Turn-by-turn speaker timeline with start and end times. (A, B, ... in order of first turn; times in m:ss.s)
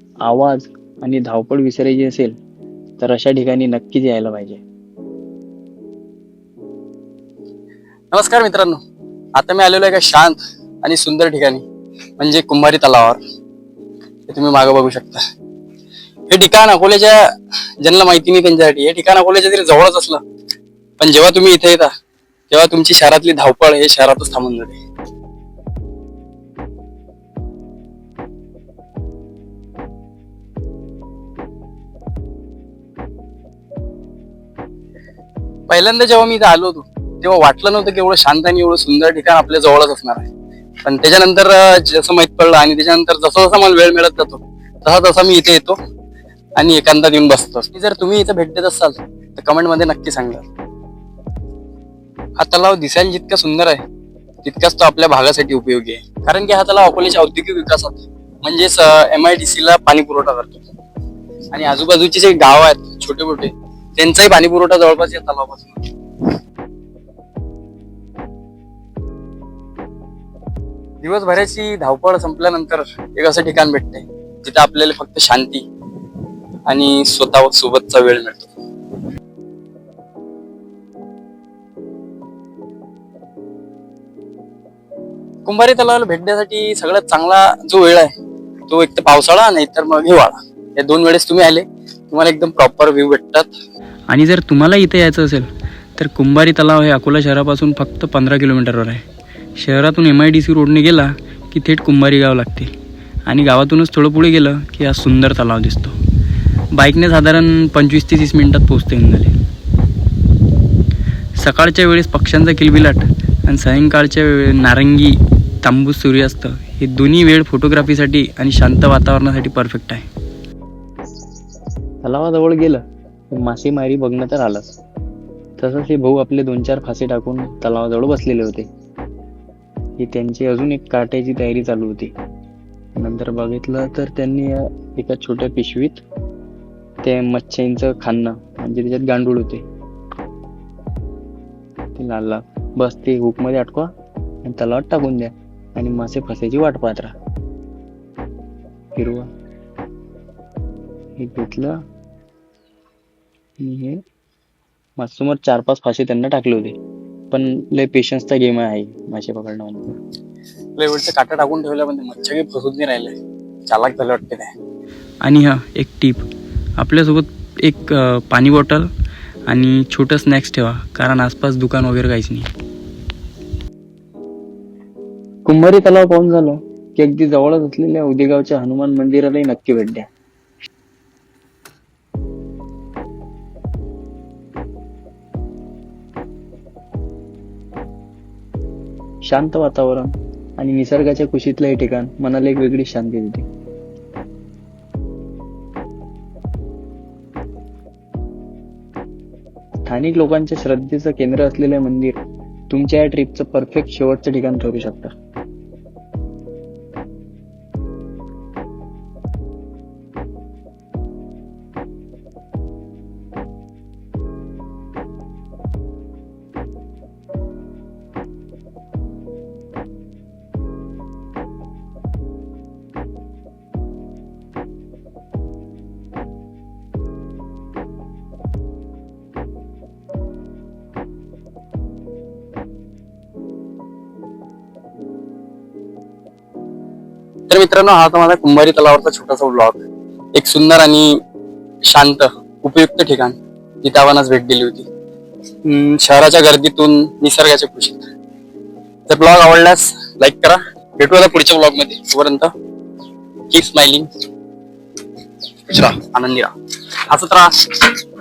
0:00.2-0:02.3 A
0:03.0-0:04.6 A
0:08.1-0:08.8 B
0:09.4-0:11.6 B
0:12.2-0:13.2 B
0:14.3-0:15.2 B
0:16.3-0:17.2 B
0:17.8-0:20.2 B
0:21.0-0:21.9 B
0:22.5-0:24.7 B
0:35.7-0:40.2 B
0:40.8-0:45.8 B
0:46.6-0:50.4 B
0:47.6-0:48.6 A
0:52.4-0:53.8 B
0:53.3-0:53.5 A
0:54.4-1:00.6 B
0:54.7-0:56.0 A
1:01.5-1:05.9 B
1:11.0-1:15.6 B
1:16.7-1:18.5 B
1:25.4-1:28.1 B
1:28.7-1:33.5 B
1:34.1-1:39.0 A
1:39.6-1:42.7 A
1:43.3-1:46.0 A
1:46.8-1:49.3 A
1:51.4-2:00.0 A
2:02.0-2:04.7 A
2:05.6-2:08.7 A
2:10.0-2:12.1 A
2:13.0-2:16.0 A
2:17.0-2:19.6 A
2:21.9-2:23.9 A
2:24.4-2:27.1 A
2:28.9-2:29.3 A
2:31.2-2:31.8 A
2:33.6-2:34.0 A
2:35.0-2:36.8 A
2:37.3-2:39.9 A
2:41.0-2:43.1 A
2:43.7-2:44.5 B
2:45.2-2:46.2 A
2:46.8-2:48.9 A
2:49.5-2:52.5 A
2:55.5-3:00.1 A
3:09.3-3:13.5 A
3:19.8-3:22.2 A
3:22.7-3:25.1 A
3:57.5-3:59.8 B
4:00.3-4:01.2 B
4:01.8-4:04.8 B
4:05.6-4:08.0 B
4:09.1-4:12.5 B
4:13.5-4:14.1 B
4:15.7-4:16.5 B
4:17.1-4:18.0 B